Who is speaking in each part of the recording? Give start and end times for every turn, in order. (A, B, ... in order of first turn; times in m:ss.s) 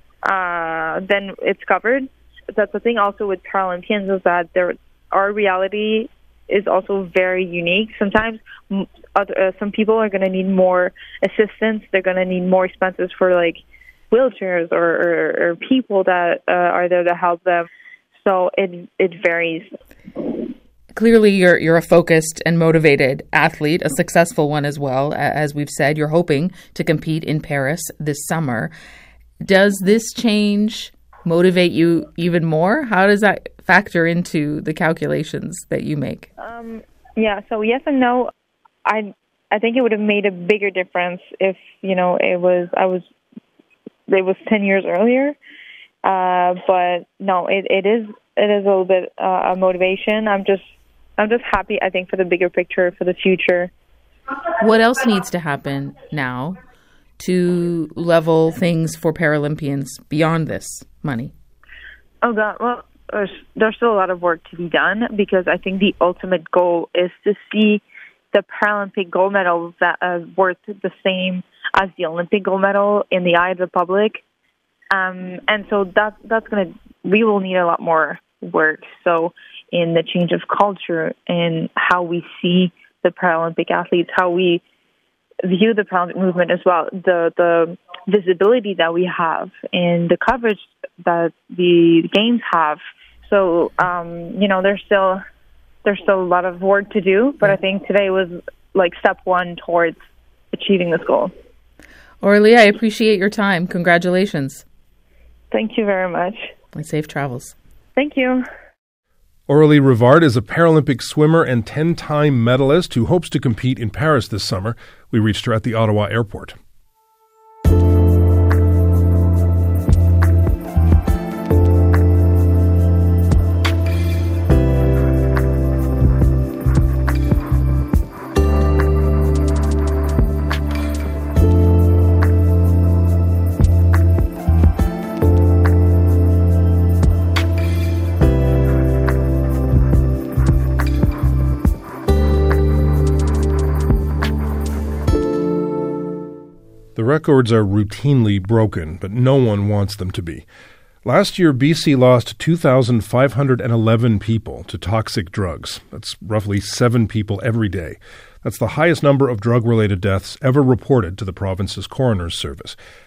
0:00.2-0:17.7 A
0:18.2-0:19.7 A
0:20.9-0:28.7 B
0:29.4-0:36.3 B
0:36.4-0:38.3 A
0:38.8-0:43.0 A
0:44.1-0:45.4 A
0:46.0-0:50.6 A
0:51.2-0:53.7 A
0:54.6-0:56.6 B
0:57.2-1:01.3 B
1:02.2-1:14.2 A
1:14.9-1:24.6 A
1:25.4-1:35.2 A
1:35.8-1:40.0 A
1:40.5-1:41.3 A
1:42.2-1:44.6 B
1:45.5-1:46.5 A
1:46.7-1:47.5 B
1:48.0-1:48.4 A
1:49.5-1:56.6 C
2:27.0-2:30.4 C
2:31.0-2:42.8 C